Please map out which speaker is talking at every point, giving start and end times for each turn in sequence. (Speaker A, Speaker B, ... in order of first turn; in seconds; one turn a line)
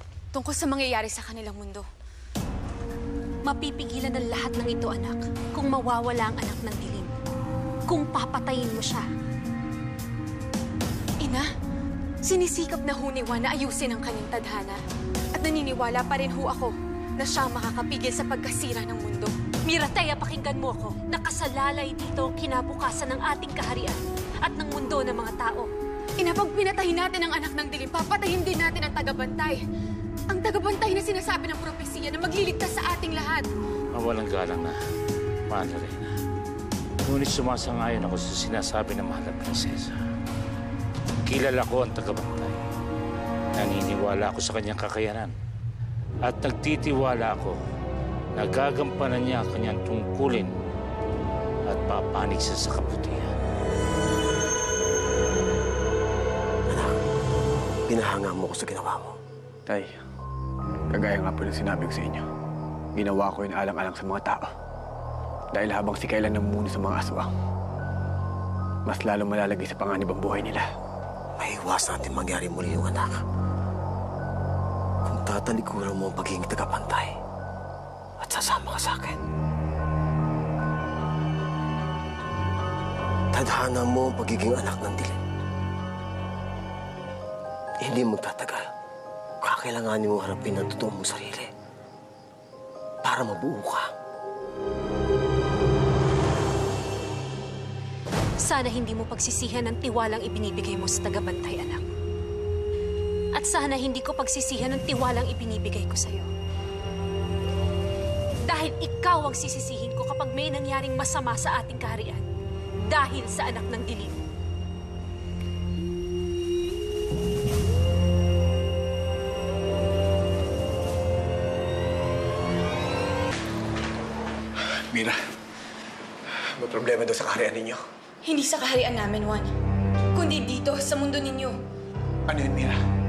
Speaker A: 0.4-1.8
Speaker B: 3.4-7.1
Speaker B: 7.9-9.1
Speaker A: 12.3-14.8
Speaker A: 15.4-19.3
Speaker B: 19.7-25.7
Speaker A: 26.2-29.6
Speaker A: 30.3-33.5
Speaker C: 33.9-34.7
Speaker C: 35.5-36.0
Speaker C: 37.0-40.0
Speaker C: 41.2-42.6
Speaker C: 43.5-45.3
Speaker C: 46.2-47.5
Speaker C: 48.4-50.5
Speaker C: 51.7-53.3
Speaker D: 56.7-56.9
Speaker D: 57.9-59.1
Speaker E: 59.7-60.0
Speaker E: 60.9-62.2
Speaker E: 62.9-64.5
Speaker E: 65.5-67.3
Speaker E: 68.8-70.6
Speaker D: 71.4-73.2
Speaker D: 75.0-77.2
Speaker D: 78.2-79.2
Speaker D: 83.3-85.2
Speaker D: 87.8-88.7
Speaker D: 89.4-91.5
Speaker D: 93.0-93.9
Speaker B: 98.4-101.8
Speaker B: 103.3-106.3
Speaker B: 108.5-112.2
Speaker B: 112.9-114.2
Speaker E: 124.9-125.2
Speaker E: 126.6-127.8
Speaker A: 128.3-129.5
Speaker A: 130.1-131.6
Speaker E: 132.3-132.8